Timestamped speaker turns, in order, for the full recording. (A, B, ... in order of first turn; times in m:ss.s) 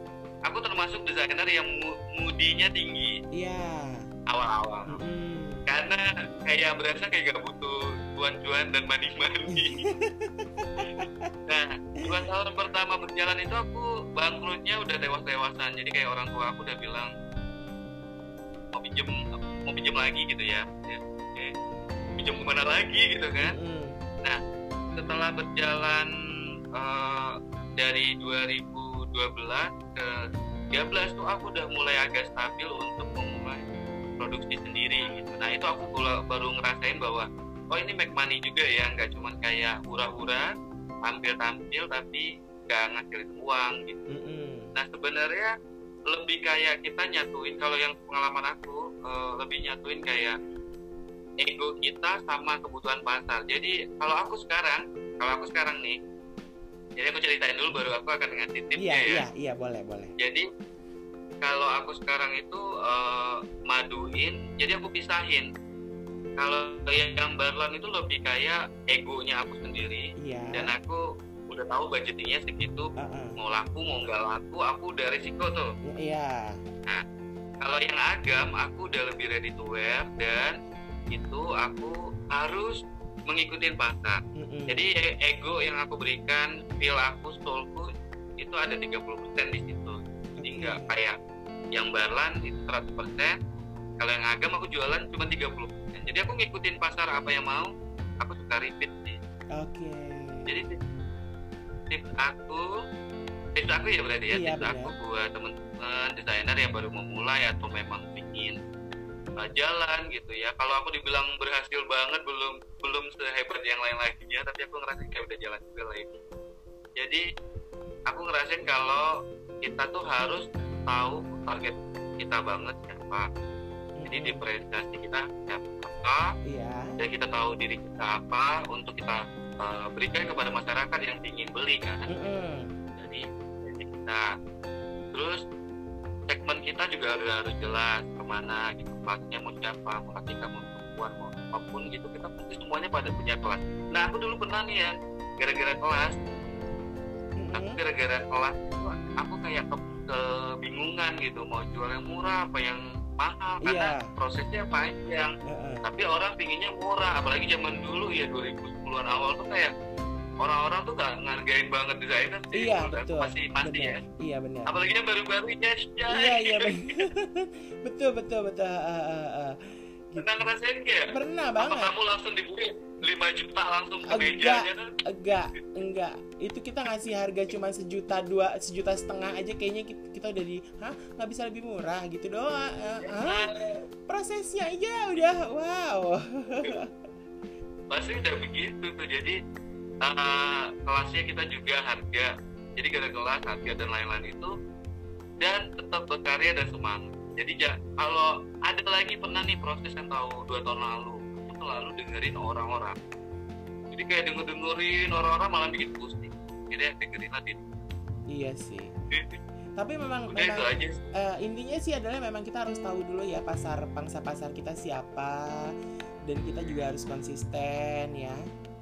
0:00.5-0:03.2 A
0:03.3-0:04.0 B
0:04.3-0:05.0 A
0:04.9-0:05.6 B
0:05.7-0:09.9 A
0:09.6-0:11.3 B
0:10.8-0:17.1 A
0:18.7-0:21.5 A
0:22.2-0:23.5 A
0:23.4-0:24.0 B
0:25.0-0:26.1 A
0:26.7-0:30.2 A
0:30.7-0:33.6 A
0:34.2-0:40.5 A
0:41.0-0:44.0 A
0:44.1-0:44.7 B
0:44.7-0:45.5 A
0:46.1-0:50.4 A
0:51.4-0:56.0 A
0:57.0-0:59.2 A
0:58.8-1:00.1 B
1:00.2-1:00.4 A
1:01.4-1:05.5 A
1:06.4-1:15.7 A
1:10.2-1:10.7 B
1:13.0-1:13.3 B
1:15.9-1:16.6 B
1:17.6-1:20.5 A
1:21.1-1:31.2 A
1:24.4-1:24.8 B
1:30.4-1:30.8 B
1:31.7-1:33.4 A
1:34.0-1:39.2 A
1:39.6-1:40.5 B
1:40.5-1:40.8 A
1:41.9-1:42.7 A
1:43.5-1:48.6 A
1:44.3-1:44.9 B
1:49.4-1:56.1 A
1:57.0-1:57.2 A
1:58.1-1:59.1 A
1:59.6-2:03.3 A
2:04.0-2:04.4 B
2:04.1-2:06.3 A
2:06.5-2:06.9 B
2:07.0-2:12.0 A
2:12.1-2:12.7 B
2:13.0-2:14.3 A
2:15.1-2:15.4 A
2:16.3-2:26.2 A
2:27.4-2:27.8 B
2:27.5-2:35.3 A
2:33.6-2:34.1 B
2:35.5-2:35.8 B
2:35.8-2:39.7 A
2:40.4-2:44.0 A
2:42.5-2:44.7 B
2:44.7-2:46.8 A
2:46.1-2:49.6 B
2:50.1-2:50.4 B
2:50.2-2:54.9 A
2:51.1-2:51.9 B
2:54.1-3:03.5 B
3:03.0-3:03.8 A
3:04.1-3:06.9 B
3:06.5-3:06.8 A
3:07.9-3:09.4 A
3:10.0-3:14.5 A
3:15.4-3:23.0 A
3:23.9-3:27.6 A
3:28.3-3:28.9 B
3:29.1-3:29.4 A
3:29.8-3:35.7 B
3:30.3-3:31.0 A
3:36.2-3:38.4 B